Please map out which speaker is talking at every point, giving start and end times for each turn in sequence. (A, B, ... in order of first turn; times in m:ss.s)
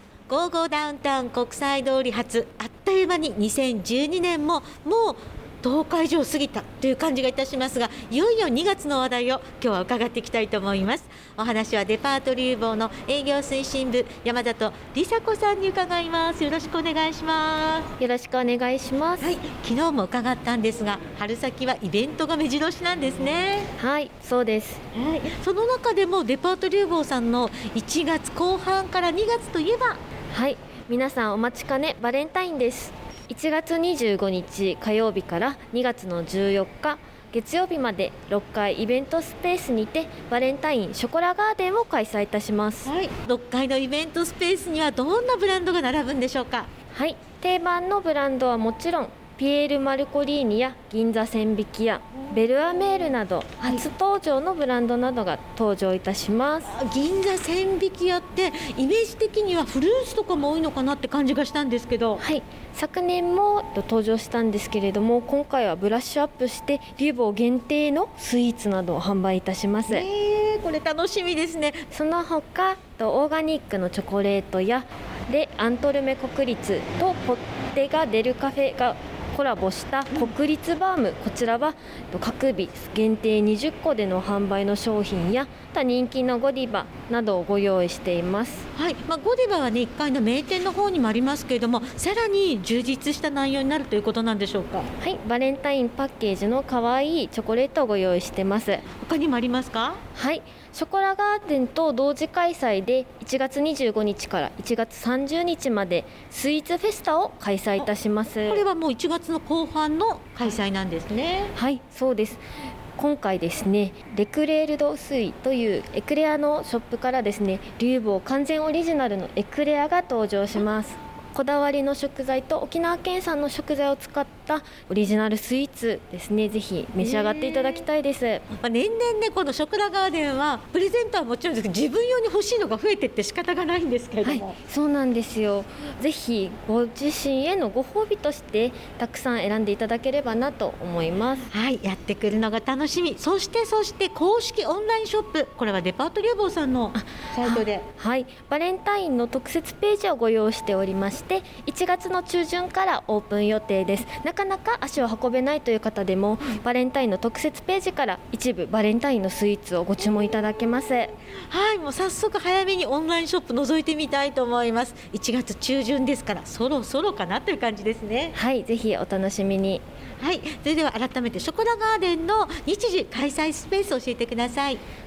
0:00.3-0:17.9 A
0:18.0-0:19.3 B
0:19.2-0:23.7 A
0:23.8-0:24.8 B
0:24.9-0:30.0 A
0:30.3-0:42.9 B
0:42.8-0:46.7 A
0:46.9-0:56.7 B
0:52.2-0:53.8 A
0:56.6-1:02.2 A
1:02.2-1:10.1 B
1:09.9-1:11.9 A
1:11.9-1:28.7 B
1:28.7-1:34.9 A
1:35.0-1:38.8 B
1:39.0-1:40.0 A
1:40.2-1:48.6 B
1:48.4-1:51.5 A
1:51.6-1:52.4 B
1:53.0-2:08.4 B
2:07.0-2:07.8 A
2:08.6-2:14.6 A
2:14.2-2:21.5 B
2:21.5-2:27.8 A
2:27.0-2:41.1 B
2:41.5-2:48.4 A
2:48.3-2:49.8 B
2:50.2-2:54.8 A